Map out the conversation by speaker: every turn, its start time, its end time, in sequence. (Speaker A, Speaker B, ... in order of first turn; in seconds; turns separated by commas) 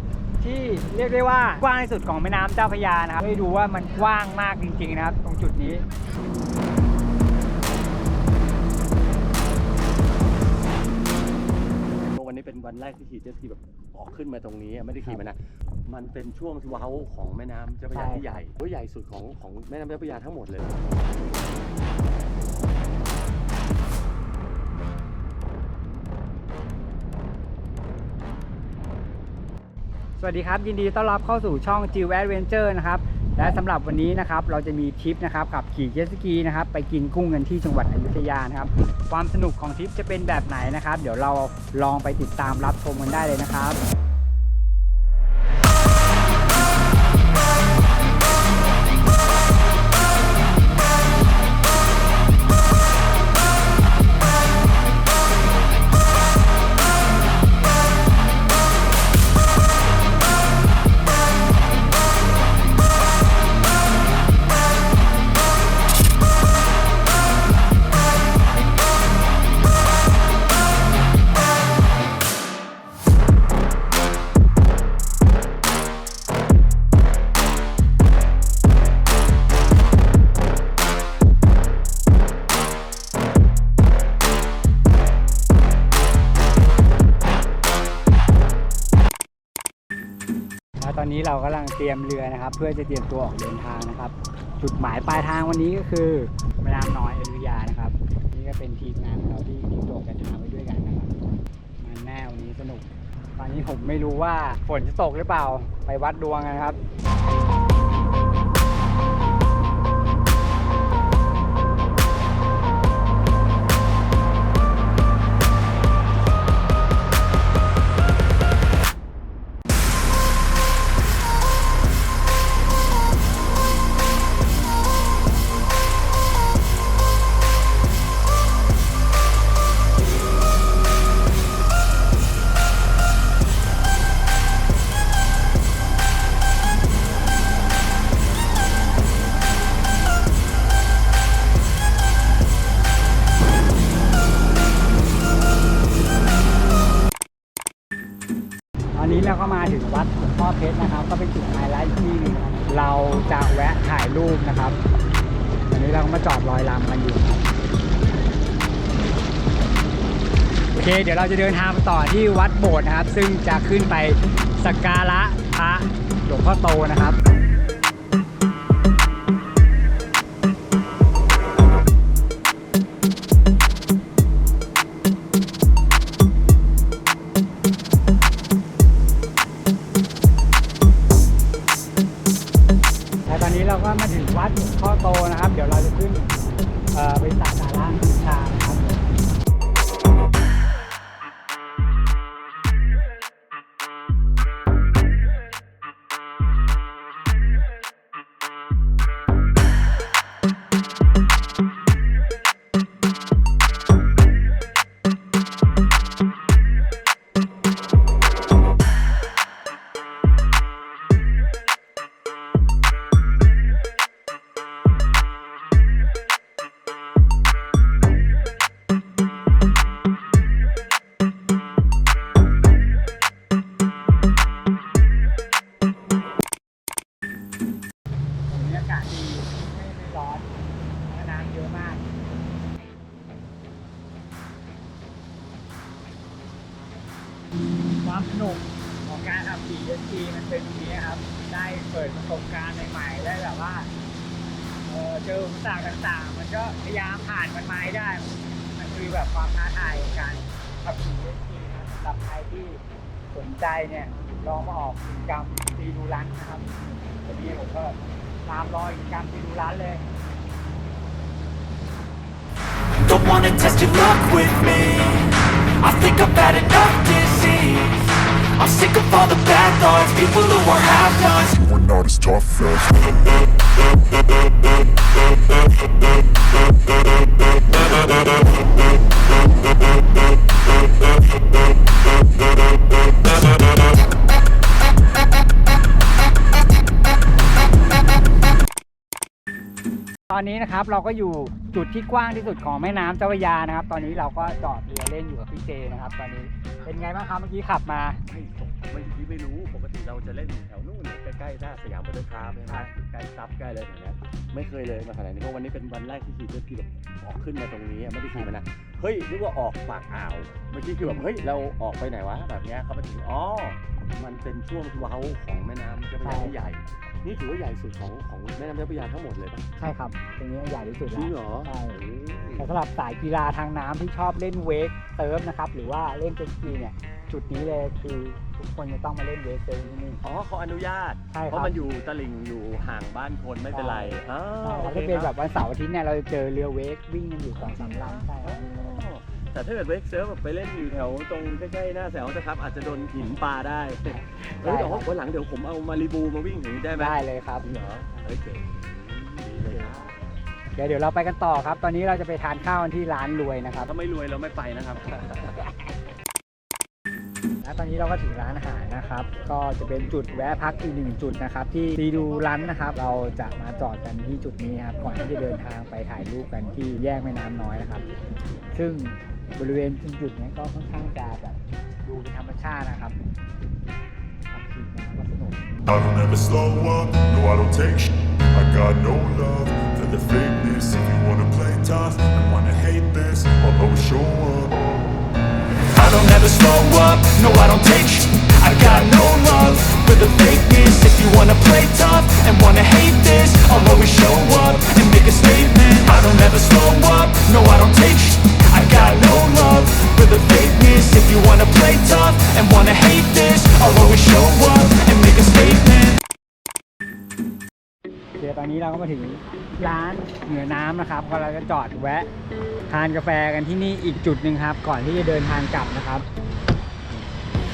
Speaker A: 0.4-5.8, Speaker B: 11.9-20.8, Speaker A: 17.9-18.3, Speaker A: 30.2-43.8, Speaker A: 90.8-101.2, Speaker A: 101.8-106.8, Speaker A: 149.0-154.8, Speaker A: 155.7-157.4, Speaker A: 160.7-167.2, Speaker A: 183.3-186.3, Speaker A: 186.9-189.0, Speaker A: 228.5-230.5, Speaker A: 231.1-232.0, Speaker A: 238.0-243.9, Speaker A: 244.9-260.0, Speaker C: 263.0-271.6, Speaker D: 271.6-273.1, Speaker A: 290.3-298.2, Speaker B: 298.3-319.7, Speaker A: 316.2-316.6, Speaker A: 319.8-322.0, Speaker B: 321.1-322.7, Speaker A: 322.6-330.2, Speaker B: 330.2-335.4, Speaker A: 331.3-331.8, Speaker A: 333.7-338.6, Speaker B: 337.6-350.2, Speaker A: 344.1-345.1, Speaker A: 346.9-347.7, Speaker A: 350.8-353.9, Speaker B: 353.8-355.6, Speaker A: 357.6-368.1, Speaker A: 368.7-373.2, Speaker A: 374.5-375.7, Speaker D: 375.9-384.9, Speaker C: 385.9-406.2, Speaker A: 408.4-412.3, Speaker A: 412.9-416.3